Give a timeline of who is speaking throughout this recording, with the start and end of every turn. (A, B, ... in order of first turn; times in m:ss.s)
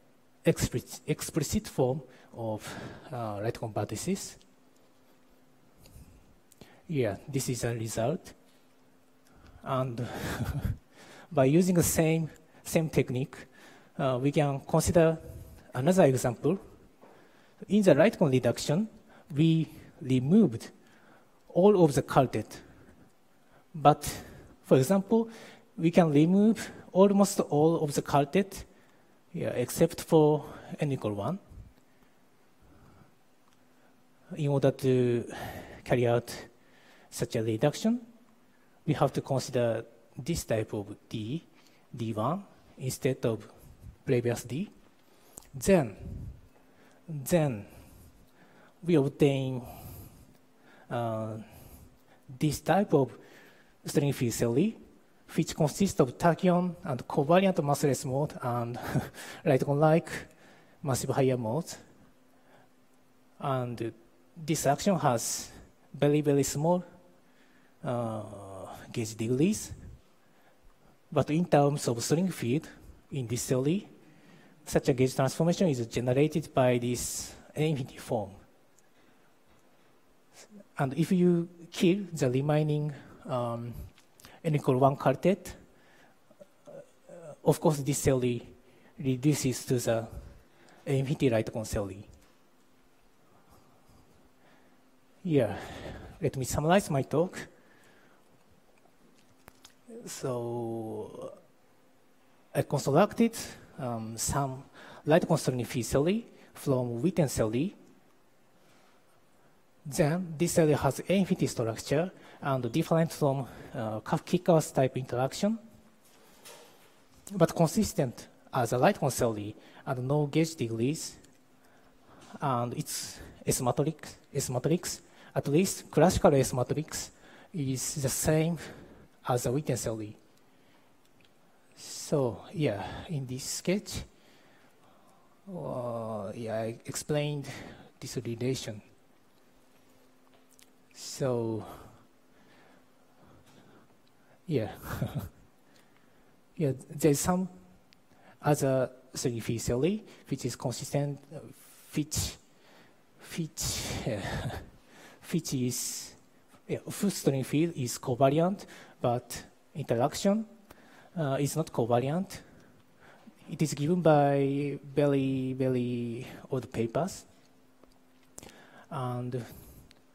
0:00.4-0:04.4 A
0:06.9-0:08.4 A
0:09.6-0:10.8 A
0:11.3-0:16.6 A
0:17.6-0:20.7 A
0:21.5-0:22.7 A
0:23.7-0:28.7 A
0:29.3-0:31.4 A
0:34.3-0:36.5 A
0:37.1-0:38.0 A
0:38.8-0:44.7 A
0:45.5-0:46.4 A
0:47.1-0:48.0 A
0:48.8-0:50.0 A
0:50.9-0:53.2 A
0:53.8-1:01.8 A
1:03.4-1:06.8 A
1:07.8-1:09.8 A
1:11.1-1:13.9 A
1:14.6-1:18.4 A
1:20.8-1:25.6 A
1:27.1-1:32.1 A
1:35.2-1:37.5 A
1:40.0-1:41.4 A
1:42.5-1:47.8 A
1:49.8-1:55.6 A
1:57.3-2:01.2 A
2:02.4-2:10.2 A
2:11.8-2:14.1 A
2:15.5-2:18.8 A
2:20.9-2:22.0 A
2:24.5-2:25.3 A
2:26.6-2:32.6 A
2:33.2-2:40.6 A
2:41.1-2:42.5 A
2:43.4-2:47.3 A
2:48.9-2:49.9 A